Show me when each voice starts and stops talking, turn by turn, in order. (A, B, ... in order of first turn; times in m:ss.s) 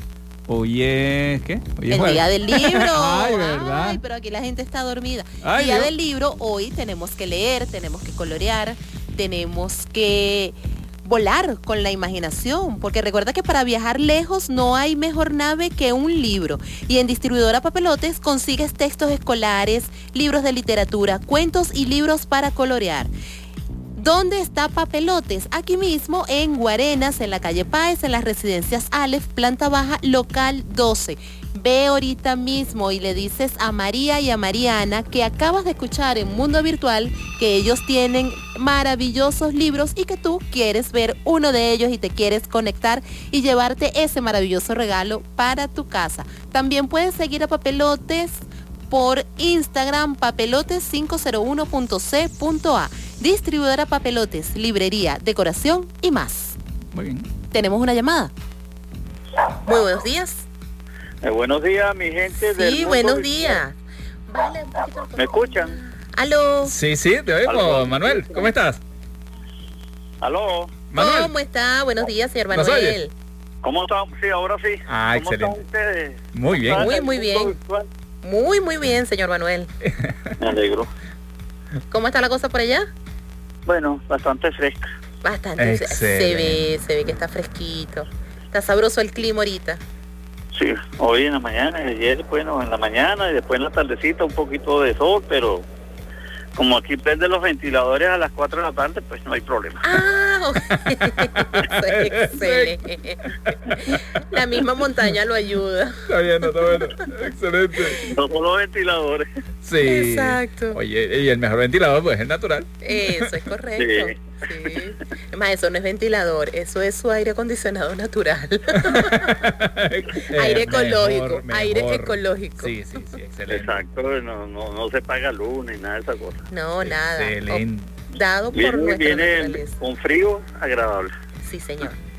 0:00.5-0:04.0 A
0:01.9-0:23.1 B
0:05.4-0:05.9 A
0:24.0-0:56.6 B
0:56.9-0:57.3 A
0:57.5-0:58.3 B
0:59.6-1:00.4 B
1:01.2-1:03.6 C
1:02.4-1:03.8 B
1:04.3-1:06.7 B
1:05.1-1:05.8 C
1:06.6-1:08.8 A
1:07.4-1:08.5 C
1:10.2-1:10.7 C
1:10.9-1:11.3 A
1:11.0-1:13.1 B
1:12.5-1:13.0 A
1:13.6-1:17.8 C
1:14.9-1:15.6 A
1:16.3-1:16.9 A
1:16.7-1:17.5 B
1:18.2-1:19.7 B
1:19.8-1:20.3 A
1:20.4-1:20.9 C
1:21.9-1:22.9 B
1:23.7-1:24.9 C
1:25.2-1:29.8 B
1:25.6-1:26.6 A
1:30.5-1:35.6 C
1:36.6-1:39.8 C
1:39.8-1:43.2 B
1:41.2-1:42.8 A
1:43.4-1:44.2 A
1:43.9-1:46.0 B
1:46.1-1:48.0 A
1:48.1-1:49.2 C
1:49.6-1:53.5 A
1:49.8-1:50.8 B
1:52.8-1:59.3 B
1:53.8-1:54.2 C
1:58.7-2:03.8 A
2:00.3-2:02.8 B
2:03.5-2:06.4 C
2:06.5-2:09.7 B
2:06.8-2:08.0 A
2:08.5-2:11.1 C
2:11.4-2:12.0 B